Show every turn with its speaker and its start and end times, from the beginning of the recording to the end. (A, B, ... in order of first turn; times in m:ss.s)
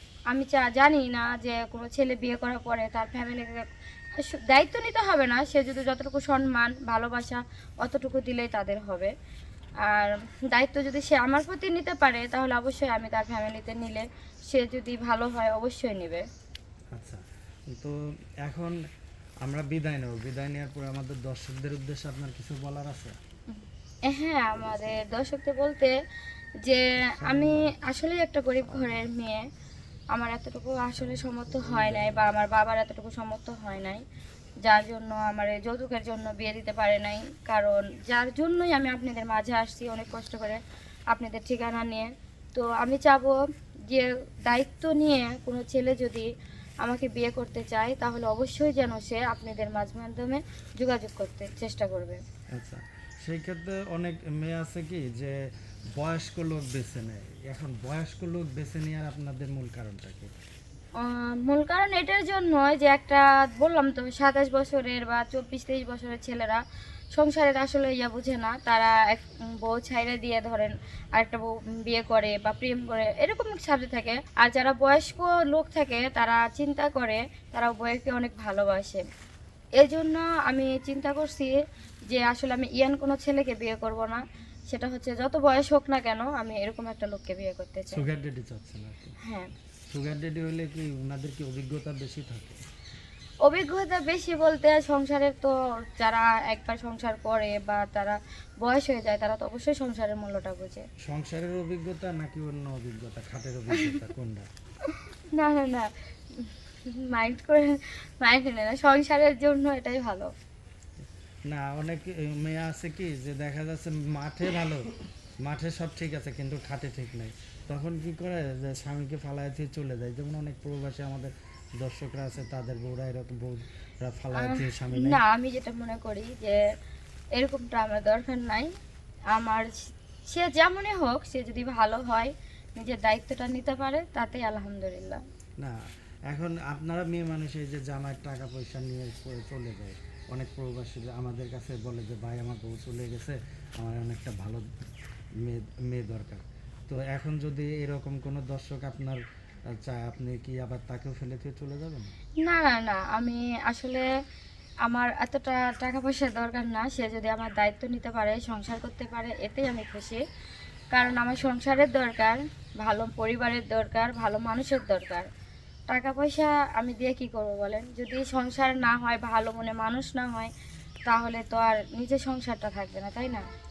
0:00.3-0:09.1 A
0:09.8-0:16.2 A
0:16.9-0:18.8 B
0:19.4-0:23.2 B
0:23.5-0:26.0 A
0:26.6-0:29.5 A
0:27.2-0:27.7 B
0:30.1-0:34.0 A
0:34.6-0:40.6 A
0:41.1-0:46.3 A
0:46.8-0:52.2 A
0:52.5-0:55.4 B
0:56.0-1:00.3 B
1:01.0-1:06.6 A
1:07.1-1:19.0 A
1:19.8-1:28.0 A
1:27.9-1:29.2 B
1:29.2-1:29.5 A
1:29.9-1:32.6 B
1:33.4-1:40.8 A
1:41.0-1:44.5 B
1:43.7-1:44.0 A
1:44.8-1:50.3 A
1:51.5-1:54.9 B
1:55.4-2:05.2 B
2:04.3-2:06.6 A
2:07.4-2:08.7 A
2:09.3-2:15.2 A
2:16.3-2:24.7 B
2:25.4-2:29.2 B
2:29.8-2:32.1 B
2:32.4-2:34.1 A
2:34.9-2:40.2 A
2:40.9-2:45.3 A
2:45.9-2:50.5 A
2:51.1-2:53.4 A